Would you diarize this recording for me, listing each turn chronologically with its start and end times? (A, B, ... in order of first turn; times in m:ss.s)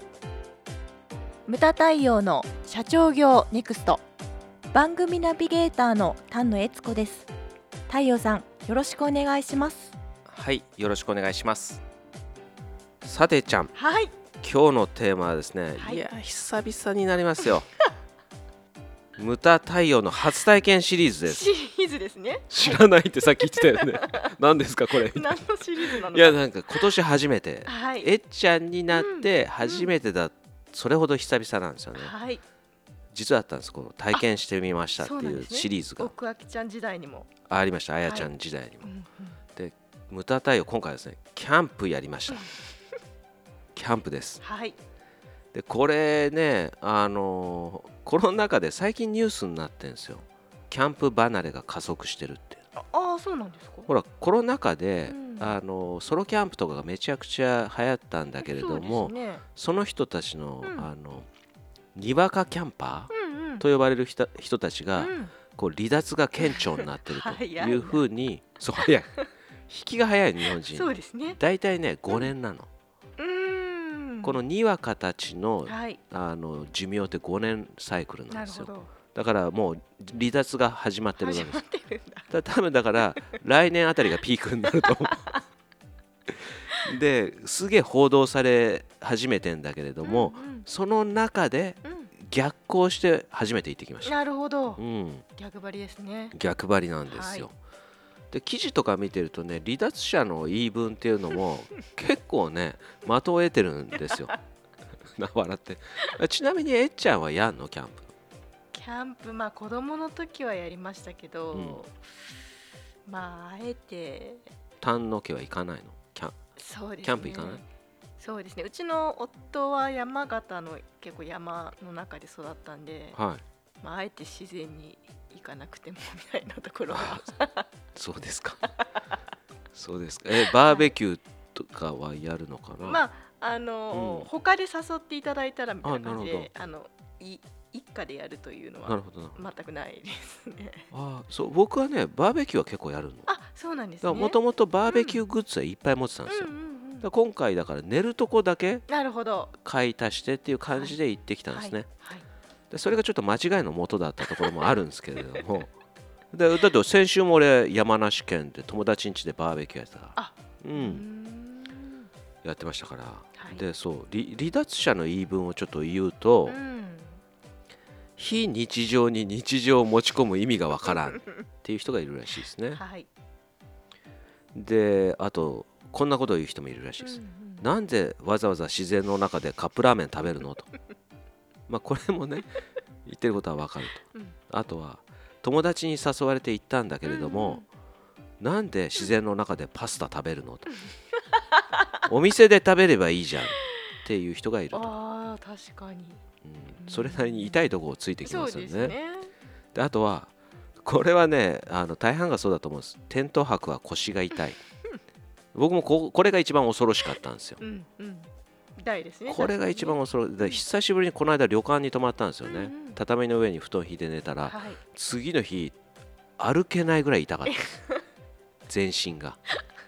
0:01.4-0:04.0 A
0:04.7-0:07.3 A
0:07.9-0:09.9 A
0:10.3-0:11.8 B
0:13.0-0:13.7 B
0:13.7-0:14.1 A
0:14.4-0:17.7 B
0:15.8-0:16.0 A
0:19.2-0:21.4 B
0:21.2-0:22.8 A
0:22.5-0:32.1 B
0:23.5-0:24.3 A
0:25.0-0:26.9 A
0:27.6-0:28.1 A
0:28.9-0:29.9 A
0:31.9-0:32.4 A
0:33.1-0:36.1 B
0:35.0-0:37.3 A
0:37.5-0:38.9 B
0:38.0-0:38.3 A
0:38.8-0:39.4 A
0:39.5-0:42.5 B
0:43.7-0:44.4 B
0:44.4-0:44.8 A
0:45.5-0:52.6 B
0:52.8-0:53.9 A
0:53.9-1:01.3 B
0:55.1-0:55.6 A
0:58.4-0:59.4 A
1:00.6-1:00.9 A
1:01.9-1:09.1 B
1:03.1-1:03.6 A
1:05.0-1:05.3 A
1:06.4-1:08.0 A
1:09.7-1:12.7 B
1:10.7-1:11.4 A
1:13.2-1:14.4 A
1:14.2-1:21.6 B
1:15.6-1:16.0 A
1:18.3-1:18.9 A
1:21.2-1:22.3 A
1:22.3-1:25.3 B
1:23.0-1:23.4 A
1:24.8-1:25.4 A
1:26.8-1:34.1 B
1:30.0-1:30.7 A
1:31.8-1:32.1 A
1:34.0-1:34.8 A
1:34.8-1:35.2 B
1:35.4-1:36.4 A
1:36.3-1:37.5 B
1:37.1-1:37.5 A
1:38.3-1:44.3 B
1:44.0-1:44.3 A
1:45.2-1:48.1 B
1:48.7-1:52.0 A
1:51.5-1:51.8 B
1:53.1-1:54.4 A
1:54.8-1:56.4 B
1:56.6-1:57.6 A
1:57.0-1:57.6 B
1:58.2-2:03.2 A
2:03.1-2:03.4 B
2:03.8-2:07.7 A
2:06.9-2:07.3 B
2:07.9-2:08.6 B
2:09.7-2:13.0 B
2:10.4-2:10.9 A
2:12.8-2:20.9 A
2:13.9-2:14.3 B
2:15.8-2:16.5 B
2:18.8-2:19.5 B
2:20.9-2:23.3 B
2:23.3-2:25.2 A
2:24.0-2:28.8 B
2:26.3-2:27.1 A
2:28.9-2:29.5 A
2:29.6-2:31.9 B
2:30.7-2:31.0 A
2:31.5-2:32.2 A
2:32.7-2:35.7 B
2:34.3-2:34.6 A
2:36.3-2:41.0 B
2:40.1-2:42.1 A
2:42.4-2:46.6 B
2:43.3-2:43.6 A
2:46.4-2:47.2 A
2:48.2-2:52.8 B
2:52.7-2:53.1 A
2:54.5-3:00.7 B
2:57.0-2:57.7 A
3:01.7-3:07.6 B
3:07.0-3:07.7 A
3:08.4-3:10.7 B
3:11.2-3:12.0 A
3:12.0-3:14.9 B
3:14.7-3:16.2 A
3:16.4-3:19.0 B
3:16.8-3:17.7 A
3:18.2-3:19.3 A
3:19.7-3:20.3 B
3:20.8-3:24.6 B
3:25.5-3:27.6 B
3:27.6-3:30.6 A
3:29.3-3:35.7 B
3:32.4-3:33.0 A
3:34.4-3:34.8 A
3:36.4-3:37.7 B
3:37.6-3:38.0 A
3:38.7-3:39.4 B